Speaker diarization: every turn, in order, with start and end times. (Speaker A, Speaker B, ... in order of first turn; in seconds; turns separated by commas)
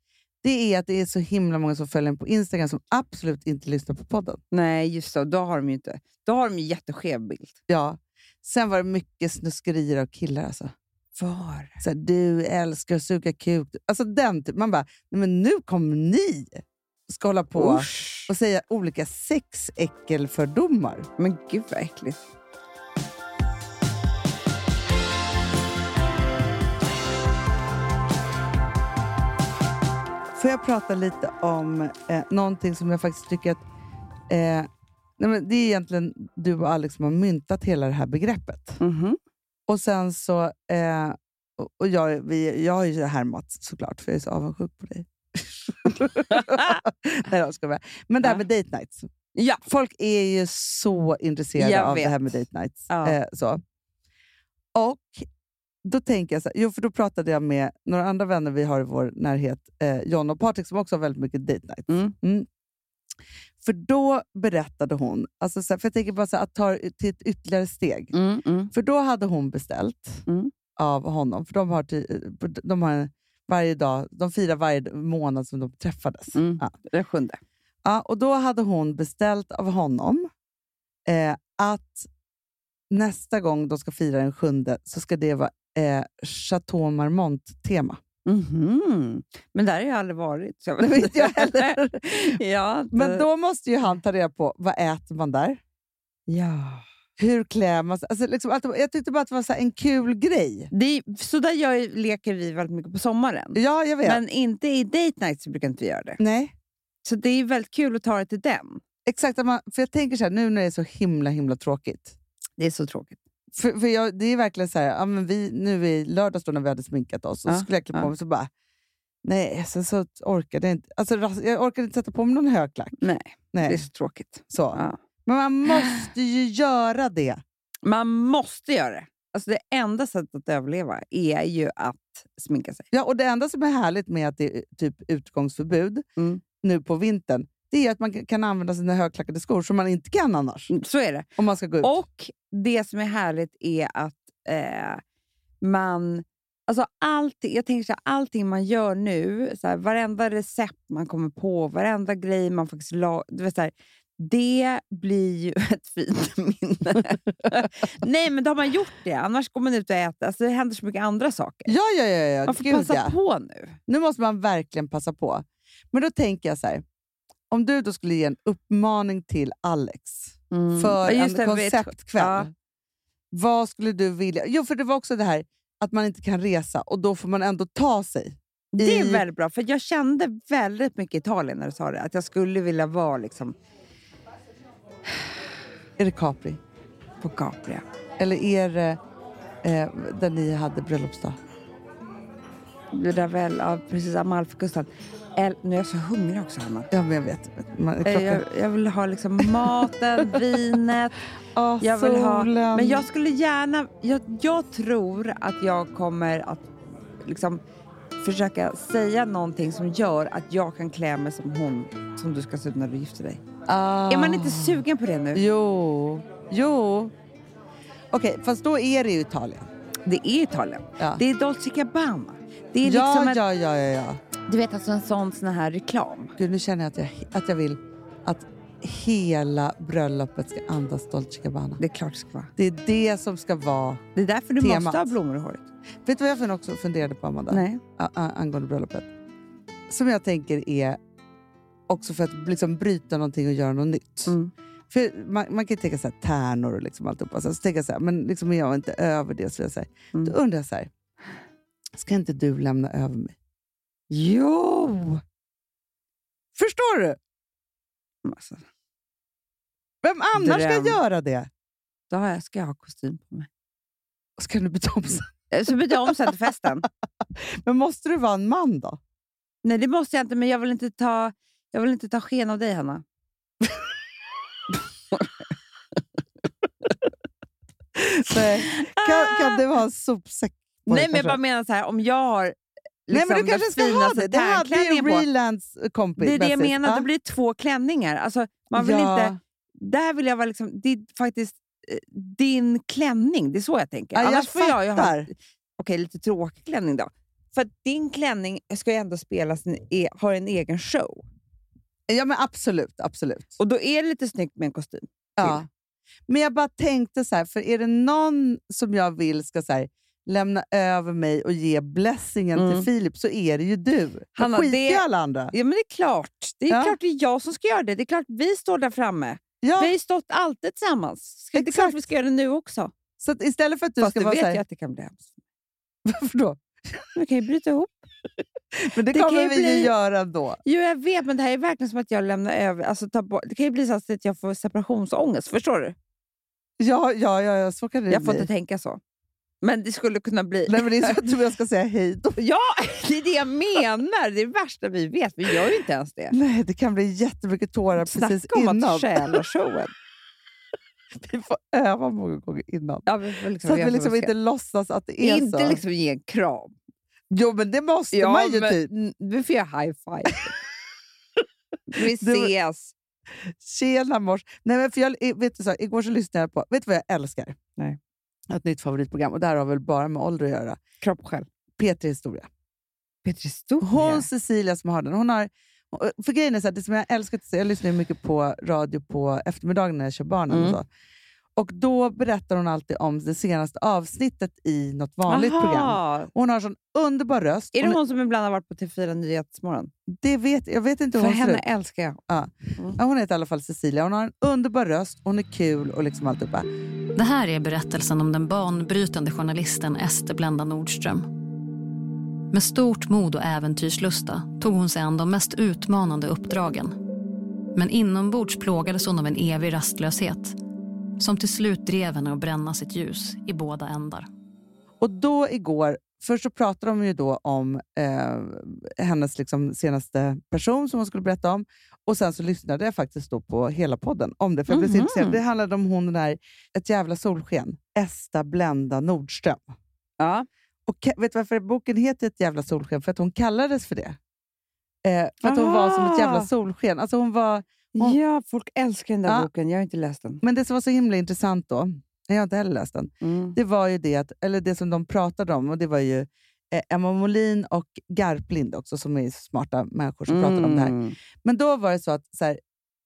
Speaker A: 0.4-4.4, Speaker B: 4.5-7.5, Speaker A: 7.7-10.7, Speaker B: 11.2-11.8, Speaker A: 11.8-21.1, Speaker B: 17.6-18.3, Speaker B: 21.2-22.3, Speaker A: 30.4-33.6, Speaker A: 34.3-38.8, Speaker B: 38.8-39.2, Speaker A: 39.7-49.1, Speaker B: 46.3-46.8, Speaker B: 49.4-49.6, Speaker A: 49.6-53.6, Speaker B: 51.6-52.2, Speaker B: 52.9-53.2, Speaker A: 54.8-55.3, Speaker A: 55.8-62.5, Speaker B: 61.9-62.1, Speaker A: 63.6-68.1, Speaker B: 68.1-68.7, Speaker A: 68.7-70.2, Speaker A: 70.8-76.7, Speaker B: 76.3-77.4, Speaker A: 77.8-80.3, Speaker A: 81.1-82.1, Speaker A: 82.9-88.0, Speaker B: 88.3-93.3, Speaker A: 90.8-92.4, Speaker A: 92.9-95.6, Speaker B: 96.3-96.8, Speaker A: 97.2-100.7, Speaker B: 100.7-106.2, Speaker A: 103.5-104.2, Speaker A: 106.2-106.5, Speaker B: 107.0-108.8, Speaker A: 109.1-112.2, Speaker B: 112.6-113.2, Speaker A: 113.5-118.5, Speaker B: 117.5-118.1, Speaker A: 119.2-123.0, Speaker B: 123.0-125.0, Speaker A: 123.5-123.9, Speaker A: 124.5-127.4, Speaker B: 125.7-126.0, Speaker B: 127.8-132.9, Speaker A: 132.9-136.1, Speaker B: 136.2-136.4, Speaker A: 136.6-140.7, Speaker B: 140.7-141.3, Speaker A: 141.4-142.0, Speaker B: 141.8-145.0, Speaker B: 145.6-161.7, Speaker A: 161.7-163.1, Speaker B: 162.5-163.8, Speaker A: 163.9-166.8, Speaker A: 167.5-172.5, Speaker B: 170.5-172.5, Speaker A: 173.3-179.2, Speaker B: 178.7-183.6, Speaker A: 186.0-186.6, Speaker B: 187.2-187.8, Speaker A: 188.2-189.0, Speaker A: 189.6-191.4, Speaker B: 192.9-196.9, Speaker A: 196.9-198.4, Speaker B: 198.0-201.2, Speaker A: 201.6-203.1, Speaker B: 201.8-207.6, Speaker B: 208.2-213.4, Speaker A: 213.7-214.8, Speaker B: 214.1-215.4, Speaker A: 215.3-217.1, Speaker A: 218.1-219.7, Speaker B: 220.1-223.4, Speaker A: 222.8-224.2, Speaker B: 224.5-226.3, Speaker A: 226.4-231.8, Speaker B: 231.8-232.5, Speaker A: 232.6-234.0, Speaker B: 234.2-235.7, Speaker A: 234.6-235.1, Speaker A: 236.1-239.1, Speaker B: 237.5-237.8, Speaker A: 239.9-241.0, Speaker A: 241.9-244.3, Speaker B: 244.3-244.5, Speaker A: 244.9-250.9, Speaker A: 251.9-253.4, Speaker B: 254.1-255.2, Speaker A: 256.6-257.2, Speaker B: 258.2-258.6, Speaker A: 260.0-261.5, Speaker B: 260.4-261.0, Speaker B: 262.1-263.5, Speaker A: 264.4-265.3, Speaker B: 265.5-266.9, Speaker A: 265.9-266.1, Speaker A: 267.4-269.0, Speaker B: 269.6-273.0, Speaker A: 278.0-281.4, Speaker B: 278.3-279.6, Speaker B: 280.9-282.6, Speaker B: 283.1-285.3, Speaker A: 283.1-287.1, Speaker B: 286.2-301.3, Speaker A: 288.7-289.4, Speaker A: 294.1-295.3, Speaker A: 302.1-303.6, Speaker B: 303.6-305.6, Speaker A: 305.4-305.7, Speaker A: 306.3-315.5, Speaker B: 312.6-312.9, Speaker B: 314.4-322.9, Speaker A: 316.7-317.0, Speaker A: 319.6-319.9, Speaker A: 321.5-322.0, Speaker A: 323.2-324.6, Speaker B: 324.0-325.4, Speaker A: 326.1-327.1, Speaker B: 327.1-328.1, Speaker A: 328.7-330.6, Speaker B: 329.1-329.9, Speaker B: 330.6-336.0, Speaker A: 336.8-338.5, Speaker B: 338.1-339.0, Speaker B: 339.6-341.2, Speaker A: 340.7-342.4, Speaker B: 342.4-346.4, Speaker A: 346.3-349.4, Speaker B: 348.0-349.9, Speaker A: 351.1-353.1, Speaker B: 353.1-354.3, Speaker A: 353.6-355.8, Speaker B: 355.2-356.8, Speaker A: 357.3-358.9, Speaker B: 358.1-360.5, Speaker B: 361.9-362.9, Speaker A: 362.1-362.5, Speaker A: 363.5-367.6, Speaker A: 368.5-370.8, Speaker B: 371.0-371.5, Speaker A: 371.8-372.5, Speaker B: 373.2-374.3, Speaker A: 373.8-380.9, Speaker B: 380.5-380.8, Speaker A: 381.6-388.0, Speaker B: 385.3-386.3, Speaker B: 387.8-389.9, Speaker A: 390.1-391.6, Speaker B: 391.1-392.2, Speaker A: 392.3-396.7, Speaker C: 397.1-401.3, Speaker C: 402.5-406.9, Speaker C: 407.8-410.6, Speaker C: 411.2-414.3, Speaker A: 415.0-429.7, Speaker B: 424.7-425.4, Speaker B: 430.2-430.5, Speaker A: 430.9-434.2, Speaker A: 435.0-438.2, Speaker B: 435.4-436.5, Speaker B: 437.9-440.4, Speaker A: 440.4-452.6, Speaker B: 443.2-443.6, Speaker B: 450.3-451.2